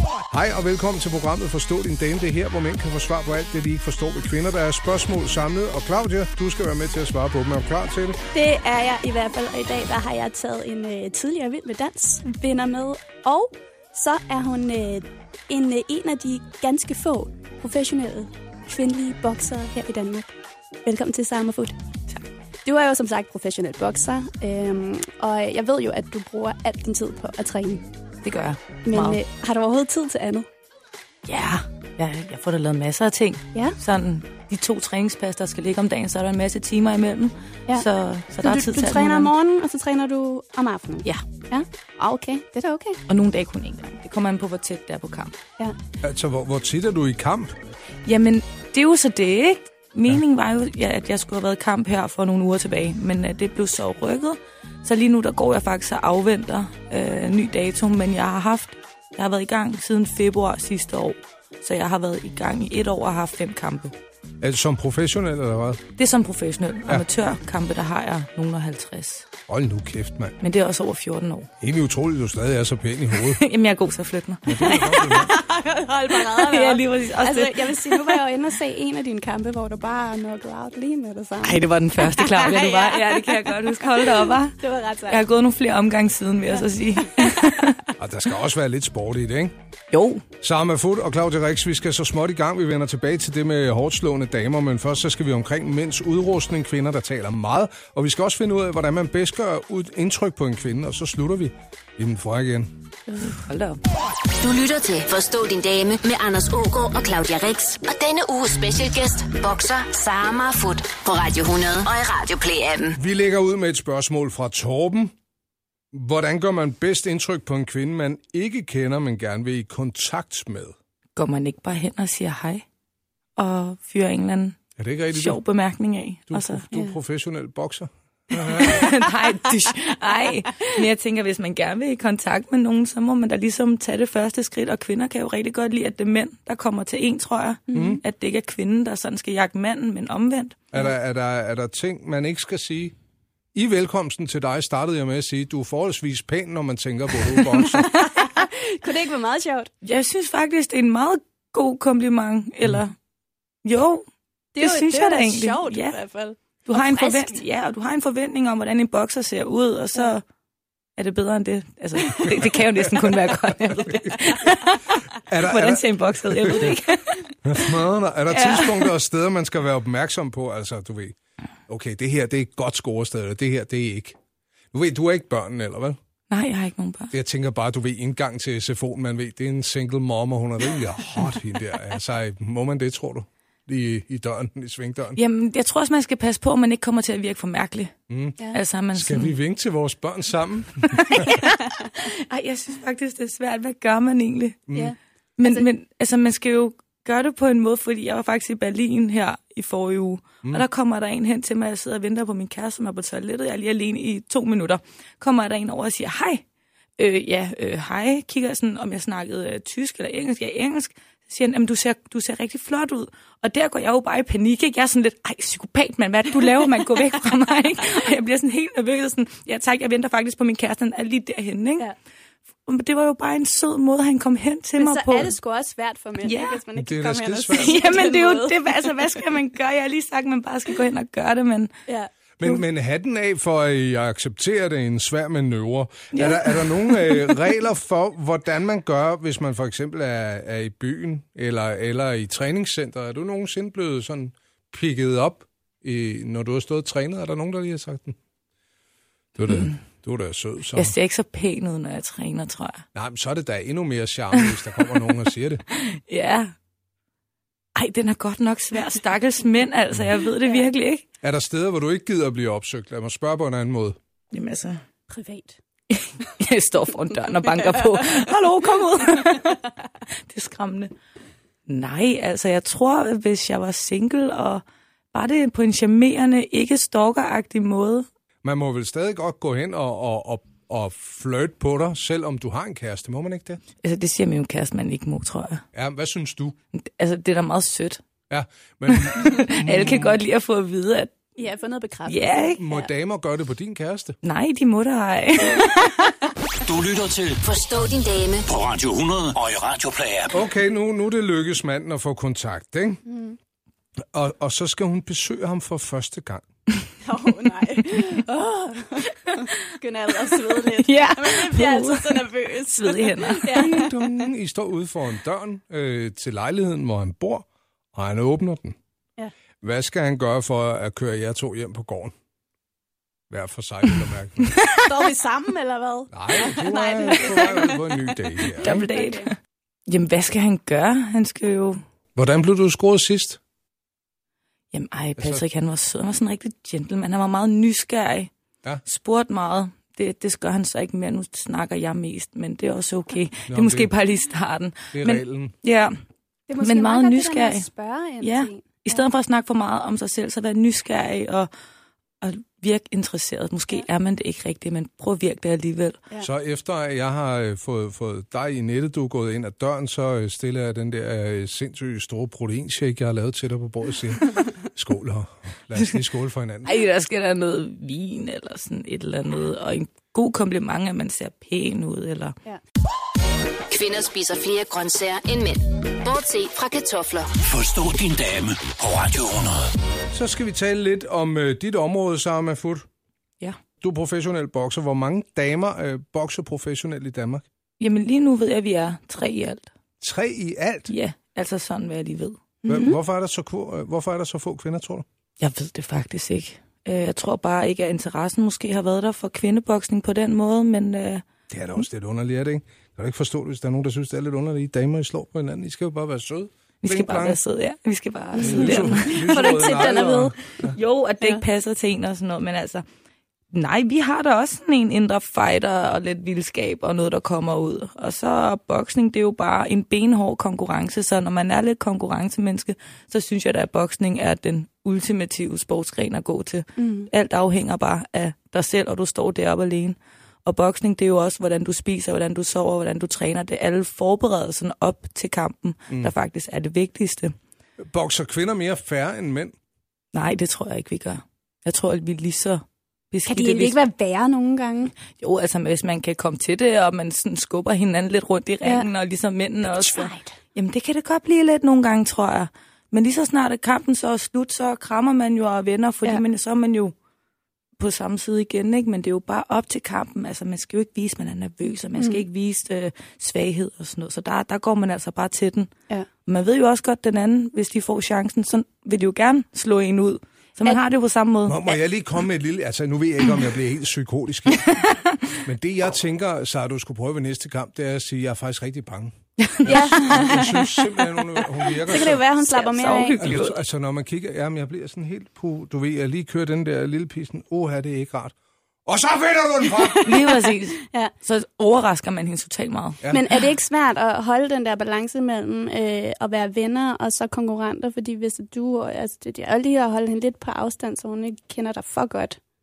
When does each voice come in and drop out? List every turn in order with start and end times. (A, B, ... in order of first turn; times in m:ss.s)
0:00.3-0:08.2 A
0:08.3-0:20.3 B
0:20.8-0:21.8 B
0:22.6-0:27.8 B
0:28.2-0:29.2 C
0:28.9-0:30.5 B
0:31.2-0:39.3 C
0:38.4-0:43.0 B
0:43.1-0:45.4 C
0:46.0-0:47.6 A
0:48.1-1:04.0 C
1:04.4-1:05.8 A
1:06.0-1:09.3 C
1:09.5-1:10.4 A
1:10.4-1:11.5 C
1:11.6-1:13.4 A
1:13.2-1:15.3 C
1:14.5-1:15.3 A
1:14.7-1:25.3 B
1:16.1-1:18.2 C
1:21.4-1:27.8 C
1:27.1-1:27.3 B
1:28.0-1:29.5 A
1:29.9-1:30.2 C
1:30.4-1:42.7 A
1:43.2-1:43.8 C
1:44.4-1:53.0 D
1:53.0-1:55.2 A
1:55.9-2:00.8 A
2:01.2-2:02.6 C
2:03.4-2:04.6 C
2:04.8-2:05.4 A
2:05.1-2:06.7 C
2:06.3-2:09.0 A
2:08.3-2:20.8 C
2:17.7-2:18.0 B
2:17.7-2:18.0 A
2:20.7-2:23.0 A
2:23.5-2:28.0 A
2:27.7-2:29.7 B
2:29.8-2:33.0 C
2:33.6-2:34.1 C
2:34.6-2:37.4 B
2:34.6-2:36.0 C
2:36.7-2:40.2 C
2:41.0-2:47.4 C
2:42.2-2:44.2 A
2:45.2-2:46.8 A
2:47.4-2:51.2 A
2:48.3-2:48.9 C
2:51.7-2:54.2 A
2:54.7-2:56.0 A
2:56.3-2:57.1 C
2:57.1-3:05.2 A
3:05.2-3:07.9 C
3:08.1-3:08.4 A
3:08.5-3:09.4 C
3:08.9-3:11.3 A
3:10.9-3:14.7 C
3:14.7-3:14.9 A
3:14.8-3:15.6 B
3:15.4-3:26.4 C
3:27.0-3:41.9 C
3:42.7-3:45.4 C
3:44.8-3:48.9 B
3:46.2-3:46.6 C
3:46.8-3:47.9 A
3:47.5-3:51.7 C
3:52.4-4:08.2 A
3:56.1-3:57.3 C
4:09.4-4:11.0 A
4:09.5-4:09.8 C
4:10.7-4:12.9 C
4:13.0-4:15.6 A
4:15.7-4:16.5 C
4:17.8-4:21.0 C
4:21.2-4:24.0 A
4:24.3-4:24.8 C
4:25.1-4:25.6 B
4:25.9-4:30.9 C
4:27.5-4:28.0 B
4:31.7-4:38.1 C
4:38.4-4:43.6 A
4:43.8-4:45.6 C
4:45.7-4:46.6 A
4:46.8-4:48.0 C
4:48.3-4:50.2 A
4:48.9-4:51.2 C
4:51.4-4:52.9 B
4:52.1-4:52.6 C
4:52.6-4:54.2 A
4:54.2-4:56.1 C
4:56.6-4:57.4 E
4:57.4-4:58.5 D
4:58.5-5:00.4 E
5:00.3-5:03.0 A
5:03.1-5:03.4 B
5:04.1-5:06.4 A
5:07.0-5:14.3 B
5:09.3-5:09.6 C
5:10.4-5:13.8 C
5:13.5-5:18.8 A
5:19.6-5:22.1 A
5:23.3-5:24.6 A
5:24.8-5:29.3 B
5:26.1-5:28.9 A
5:28.6-5:29.4 C
5:29.9-5:31.8 C
5:32.2-5:33.4 A
5:34.7-5:38.3 C
5:35.2-5:35.4 A
5:38.8-5:46.0 C
5:43.5-5:43.9 A
5:44.9-5:45.5 A
5:46.5-5:49.0 B
5:46.6-5:47.7 C
5:48.2-5:51.5 C
5:52.2-5:56.0 C
5:56.2-6:06.7 A
6:06.6-6:12.4 C
6:13.7-6:17.3 D
6:17.4-6:19.7 E
6:20.1-6:22.9 A
6:23.8-6:27.4 A
6:27.8-6:29.7 C
6:30.0-6:30.9 A
6:30.9-6:32.4 C
6:32.6-6:33.0 B
6:32.7-6:35.0 A
6:35.4-6:41.2 C
6:41.5-6:47.4 A
6:46.8-6:52.8 C
6:48.4-6:50.3 B
6:48.4-6:50.8 A
6:53.5-7:17.3 C
7:06.8-7:07.1 B
7:17.8-7:19.6 A
7:20.1-7:23.8 C
7:23.3-7:24.9 B
7:25.1-7:36.9 C
7:29.6-7:30.3 B
7:37.8-7:45.7 C
7:46.3-7:51.8 C
7:51.5-7:54.7 A
7:54.6-7:55.2 C
7:55.4-8:02.2 A
7:59.4-8:00.4 C
7:59.6-8:00.9 B
8:01.7-8:03.3 B
8:02.4-8:03.6 C
8:03.2-8:08.4 A
8:08.9-8:10.2 A
8:10.0-8:13.1 C
8:13.1-8:22.4 B